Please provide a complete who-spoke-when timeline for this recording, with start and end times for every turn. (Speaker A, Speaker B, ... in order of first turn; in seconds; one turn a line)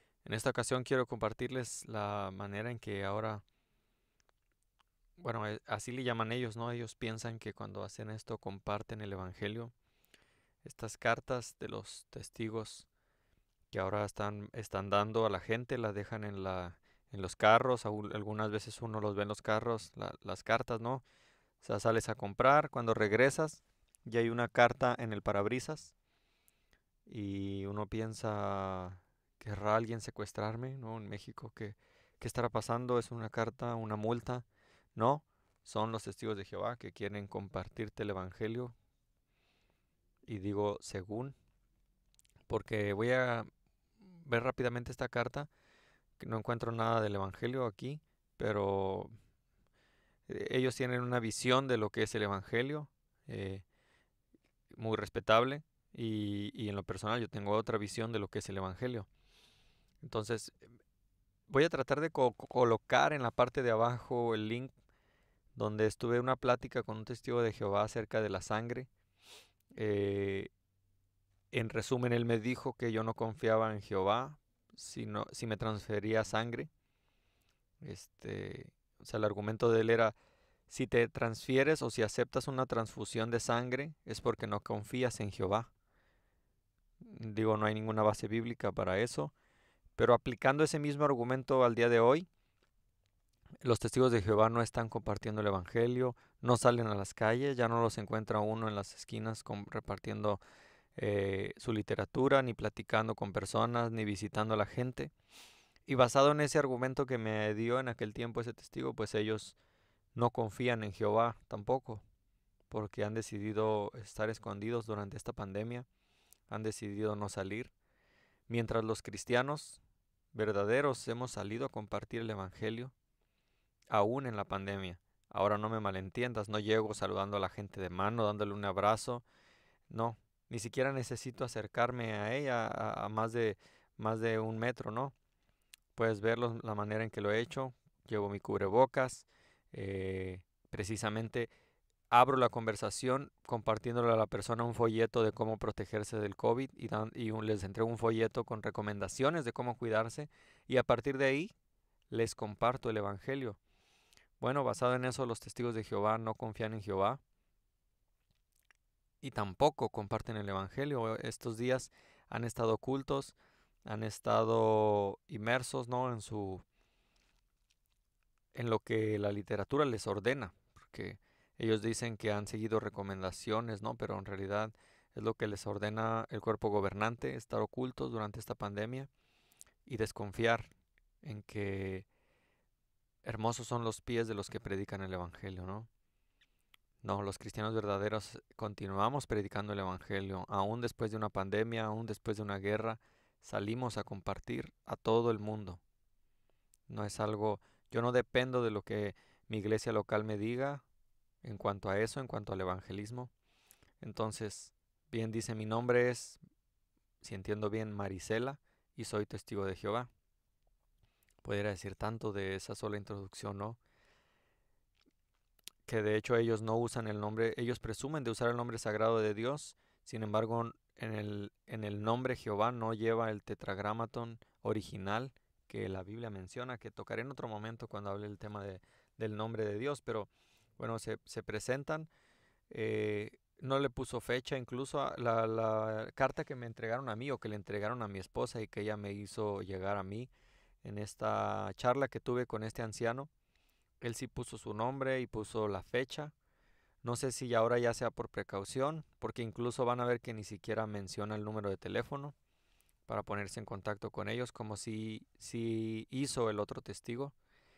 Speaker A: 0.2-3.4
Speaker A: 5.2-9.7
Speaker A: 10.6-12.9
Speaker A: 13.7-21.0
Speaker A: 21.6-25.9
Speaker A: 27.1-38.7
Speaker A: 40.3-41.4
Speaker A: 42.5-43.5
Speaker A: 44.1-45.5
Speaker A: 46.2-49.1
Speaker A: 50.3-53.6
Speaker A: 54.7-59.1
Speaker A: 60.0-60.6
Speaker A: 61.5-64.7
Speaker A: 65.6-68.9
Speaker A: 69.8-70.5
Speaker A: 71.5-76.7
Speaker A: 77.8-80.2
Speaker A: 80.7-85.7
Speaker A: 87.0-89.3
Speaker A: 90.0-92.3
Speaker A: 93.6-100.4
Speaker A: 101.0-105.1
Speaker A: 105.9-109.6
Speaker A: 110.2-112.0
Speaker A: 112.7-115.9
Speaker A: 116.5-117.7
Speaker A: 118.5-119.8
Speaker A: 120.3-122.9
Speaker A: 123.9-129.2
Speaker A: 129.9-135.1
Speaker A: 135.9-141.5
Speaker A: 142.1-151.5
Speaker A: 152.1-153.6
Speaker A: 154.4-157.2
Speaker A: 159.2-166.6
Speaker A: 168.5-179.1
Speaker A: 179.9-180.7
Speaker A: 181.2-182.1
Speaker A: 183.2-185.9
Speaker A: 187.0-195.8
Speaker A: 196.9-200.8
Speaker A: 201.4-203.3
Speaker A: 204.0-206.4
Speaker A: 207.2-210.1
Speaker A: 211.4-213.8
Speaker A: 215.9-232.1
Speaker A: 232.7-240.3
Speaker A: 240.8-243.3
Speaker A: 244.0-246.3
Speaker A: 247.0-252.3
Speaker A: 253.1-257.4